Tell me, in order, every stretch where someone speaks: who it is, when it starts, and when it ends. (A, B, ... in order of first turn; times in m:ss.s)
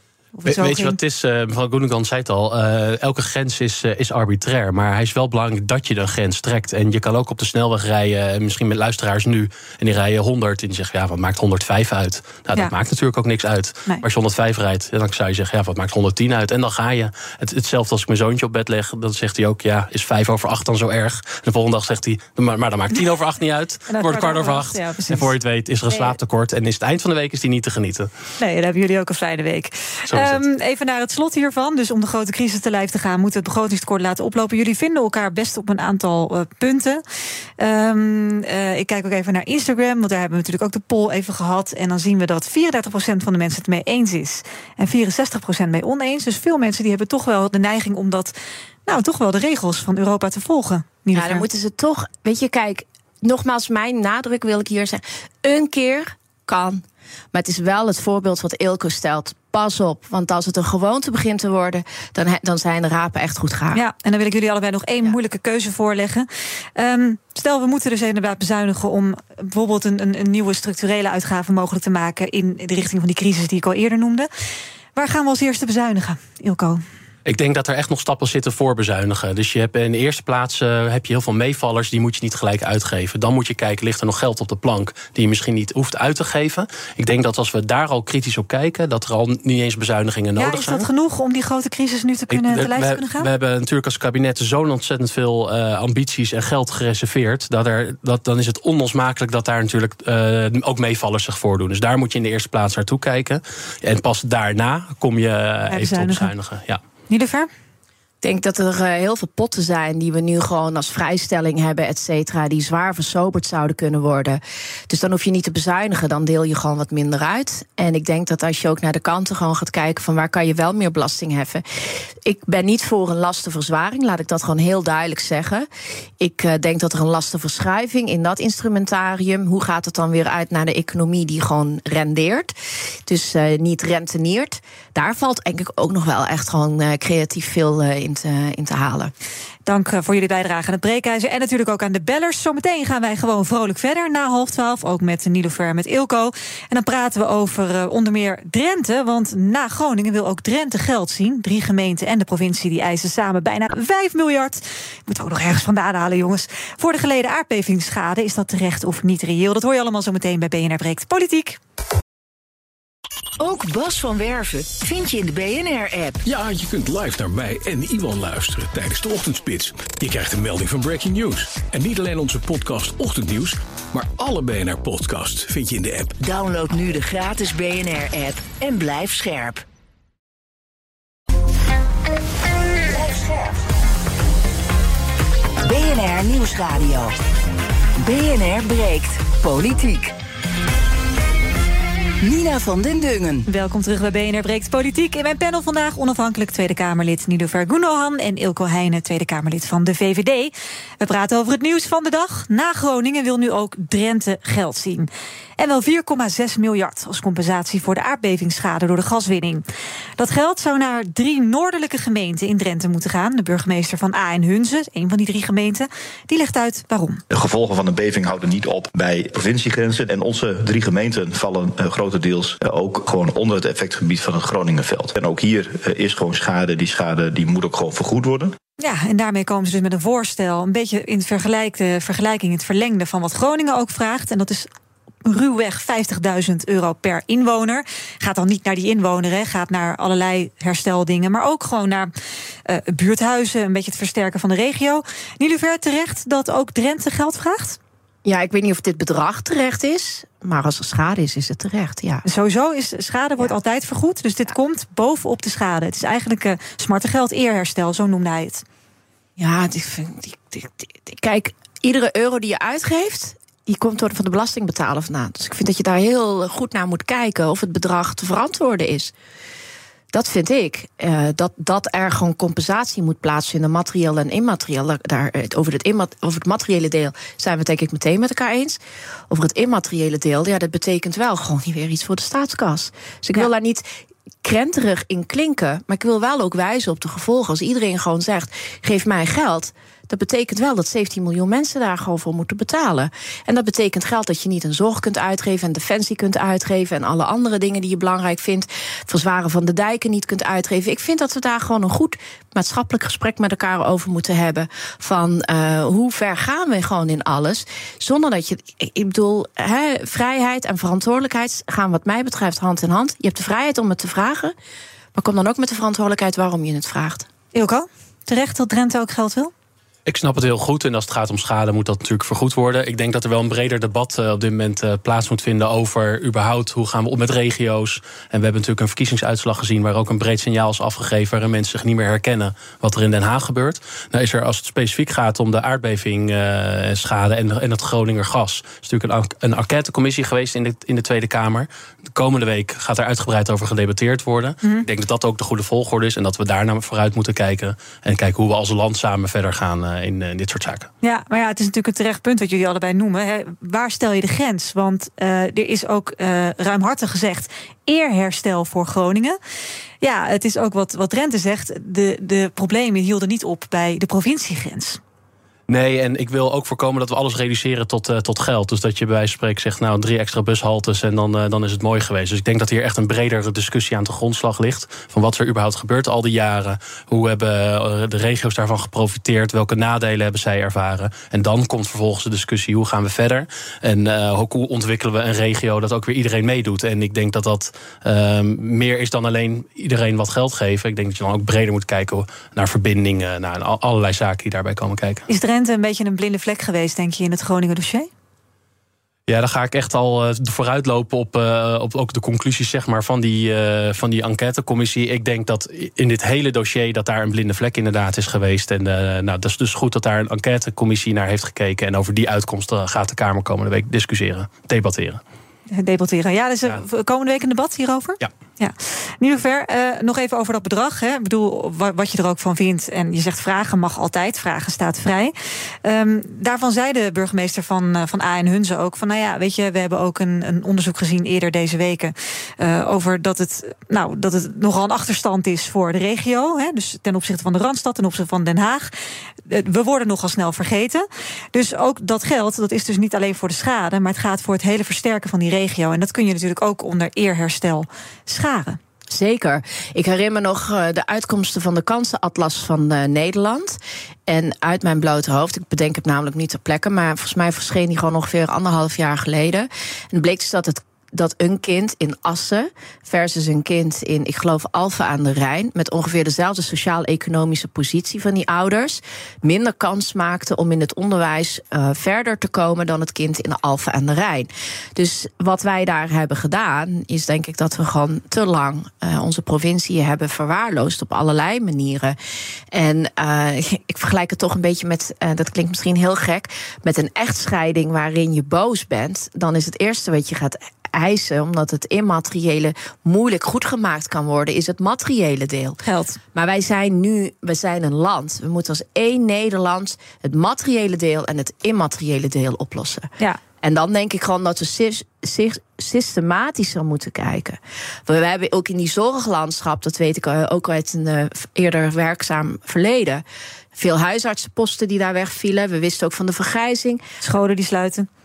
0:00.4-0:01.0 A
0:00.5-0:28.1 B
0:23.9-0:25.3 A
0:25.9-0:26.2 A
0:28.4-0:37.0 A
0:30.1-0:30.4 B
0:37.6-0:48.4 A
0:48.9-0:51.4 A
0:51.1-1:03.8 C
1:03.7-1:14.3 A
1:15.0-1:16.8 A
1:17.3-1:30.9 B
1:30.4-1:33.3 A
1:32.3-1:46.8 B
1:45.7-1:46.3 A
1:47.1-1:47.5 A
1:48.2-2:01.6 C
2:02.2-2:05.7 C
2:06.2-2:12.5 C
2:13.1-2:19.1 C
2:19.7-2:41.6 A
2:43.4-2:46.2 D
2:46.2-2:56.2 E
2:56.2-2:59.6 D
3:02.9-3:03.6 D
3:05.6-3:07.1 D
3:08.0-3:10.1 D
3:12.2-3:13.4 D
3:13.5-3:29.6 A
3:30.2-3:37.2 A
3:37.3-3:48.6 F
3:48.8-3:54.7 A
3:55.2-4:02.1 A
4:02.7-4:07.8 A
4:08.2-4:12.2 C
4:12.2-4:18.6 A
4:19.4-4:29.1 C
4:30.1-4:43.9 C
4:44.4-5:14.6 C
5:15.2-5:17.3 C
5:17.5-5:19.5 A
5:20.1-5:50.9 B
5:51.0-5:59.4 A
6:00.0-6:05.0 A
6:05.7-6:35.2 B
6:35.3-6:38.1 A
6:39.3-6:55.2 B
6:55.7-7:18.9 A
7:19.4-7:28.8 A
7:29.1-8:02.2 C
8:02.7-8:15.8 C
8:15.8-8:16.2 A
8:16.4-8:23.1 C
8:23.6-8:33.2 C
8:33.8-8:37.0 C
8:37.2-8:38.1 A